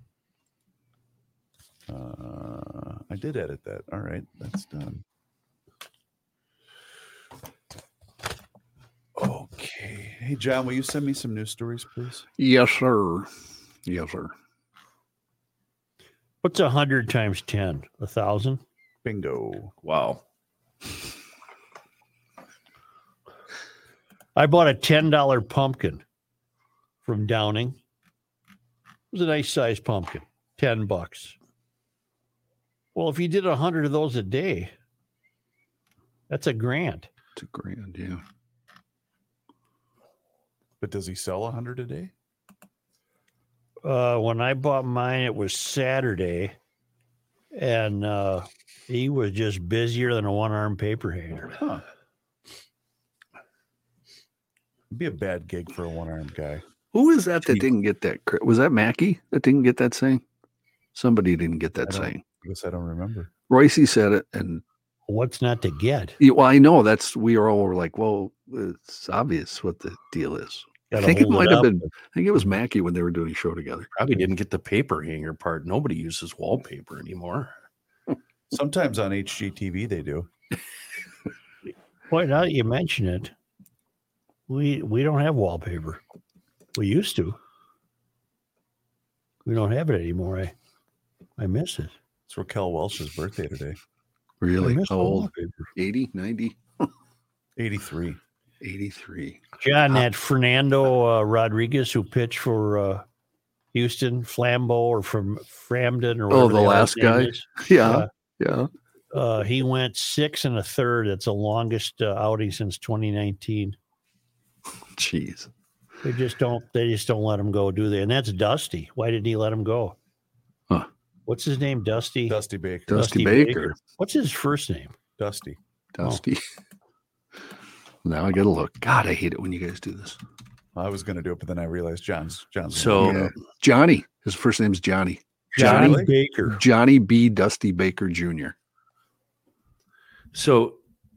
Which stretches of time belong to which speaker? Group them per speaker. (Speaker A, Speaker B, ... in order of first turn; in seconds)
Speaker A: 1.9-5.0, 9.2-12.3, 19.0-19.7, 40.8-42.1, 51.6-51.8, 54.9-56.6, 61.9-63.3, 78.5-80.3, 92.3-93.8, 97.6-98.2, 122.3-123.1, 125.2-125.6, 130.7-133.3, 135.6-136.1
Speaker B: 12.4-13.3, 13.8-14.3, 37.4-38.2, 56.9-60.2, 60.9-62.2, 63.5-64.6, 66.2-73.9, 94.4-96.9, 98.6-100.0, 106.3-108.7, 114.9-115.5, 122.9-123.8, 125.9-126.4, 128.0-130.2, 132.9-138.5
Speaker C: 16.4-18.6, 24.4-26.0, 27.0-27.8, 29.1-31.4, 32.9-34.7, 36.3-37.1, 43.8-46.5, 47.5-51.5, 65.1-66.2, 70.9-71.8, 82.1-83.3, 84.5-86.0, 86.7-87.4, 89.5-90.5, 91.4-91.9, 94.6-95.7, 99.6-103.0, 103.7-108.1, 109.1-113.8, 116.0-120.0, 121.3-122.4, 122.9-124.9, 135.5-136.6
Speaker D: 19.8-20.2, 73.9-77.5, 132.7-133.3, 140.3-140.8